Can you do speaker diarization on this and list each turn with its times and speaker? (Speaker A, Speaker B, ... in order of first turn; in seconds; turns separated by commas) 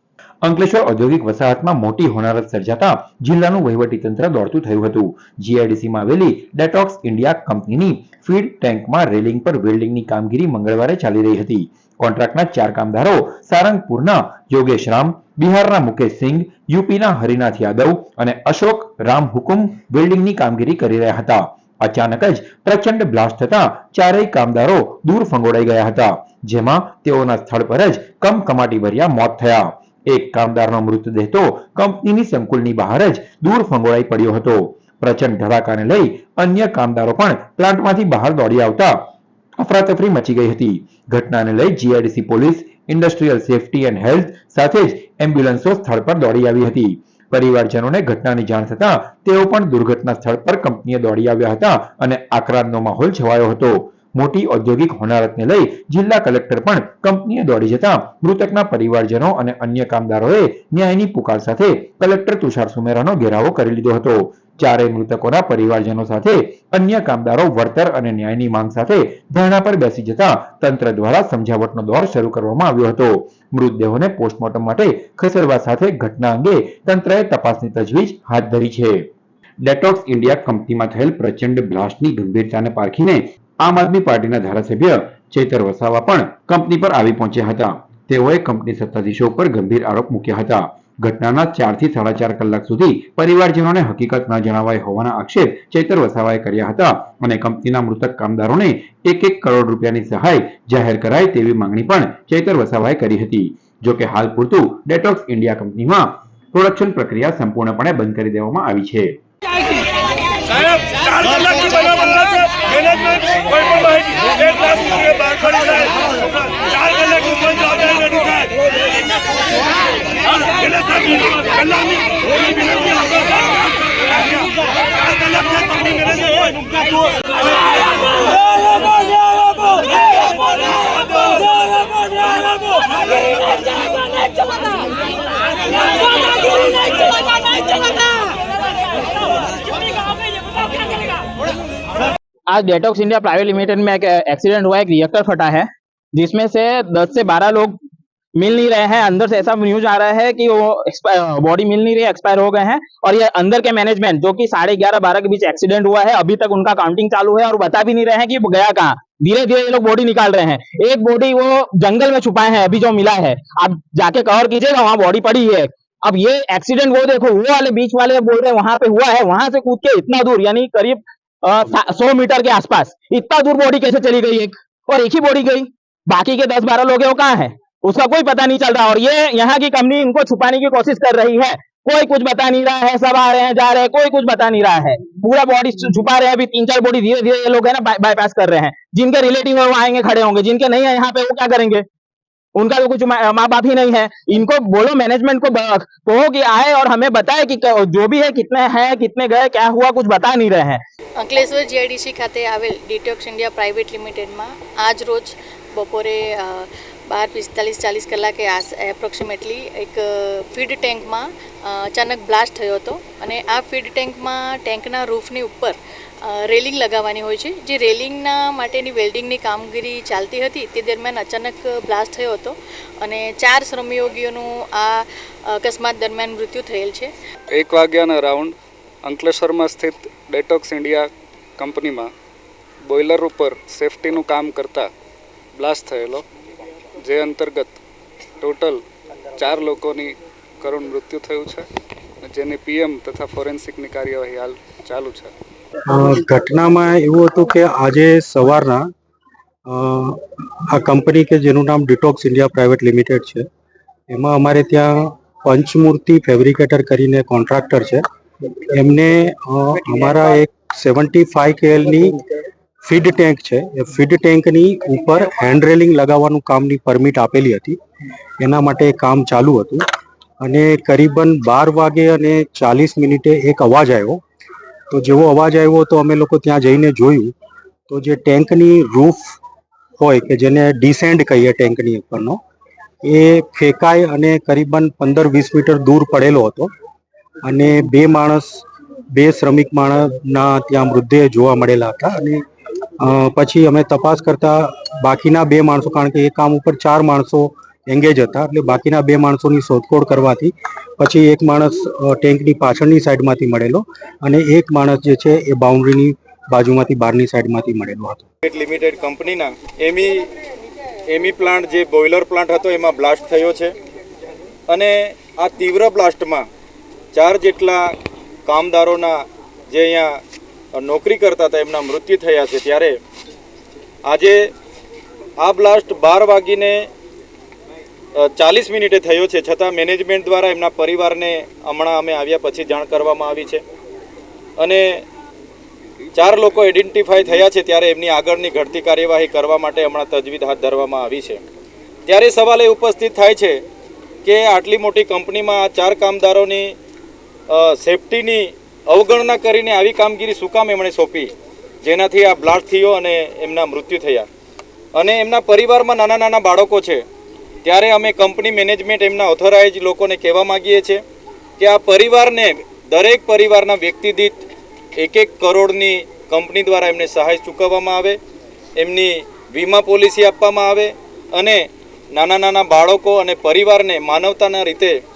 Speaker A: 0.4-39.0, Speaker A: 39.6-79.0, Speaker A: 79.6-109.2, Speaker B: 111.4-111.8, Speaker C: 114.8-115.4, Speaker C: 117.3-118.0, Speaker D: 142.5-147.8, Speaker D: 148.3-191.8, Speaker D: 192.5-200.8, Speaker E: 201.2-205.2, Speaker C: 201.3-201.6, Speaker E: 205.8-206.6, Speaker E: 207.1-210.0, Speaker E: 210.5-211.2, Speaker C: 210.7-211.1, Speaker E: 211.9-215.7, Speaker C: 212.1-214.2, Speaker C: 215.1-215.6, Speaker E: 216.3-222.5, Speaker C: 216.6-220.9, Speaker C: 221.9-222.4, Speaker E: 223.0-225.0, Speaker C: 223.5-223.8, Speaker E: 225.6-227.1, Speaker C: 225.7-226.9, Speaker F: 227.5-232.1, Speaker F: 232.8-234.9, Speaker F: 235.6-236.2, Speaker F: 237.0-237.8, Speaker F: 238.4-238.8, Speaker F: 239.4-241.7, Speaker F: 242.2-245.3, Speaker G: 245.8-248.9, Speaker G: 249.7-253.5, Speaker G: 254.1-258.0, Speaker G: 258.6-262.2, Speaker G: 262.8-267.8, Speaker G: 268.4-269.8, Speaker G: 270.4-274.2, Speaker G: 274.9-277.3, Speaker G: 277.9-279.4, Speaker G: 280.0-282.4, Speaker G: 283.0-286.7, Speaker G: 287.4-292.4, Speaker G: 293.0-308.3, Speaker B: 308.4-310.3, Speaker B: 311.1-313.7, Speaker B: 314.7-316.5, Speaker B: 317.1-317.9, Speaker B: 318.4-320.2, Speaker B: 320.7-323.0, Speaker B: 324.1-324.5, Speaker B: 325.4-326.9, Speaker B: 328.1-333.6, Speaker B: 334.6-335.0, Speaker B: 336.1-341.4, Speaker B: 342.1-343.6, Speaker B: 344.2-346.7, Speaker B: 347.5-351.3, Speaker B: 351.8-354.3, Speaker B: 354.9-357.0, Speaker B: 357.6-361.0, Speaker B: 361.6-364.4, Speaker B: 365.0-368.2, Speaker B: 368.8-375.0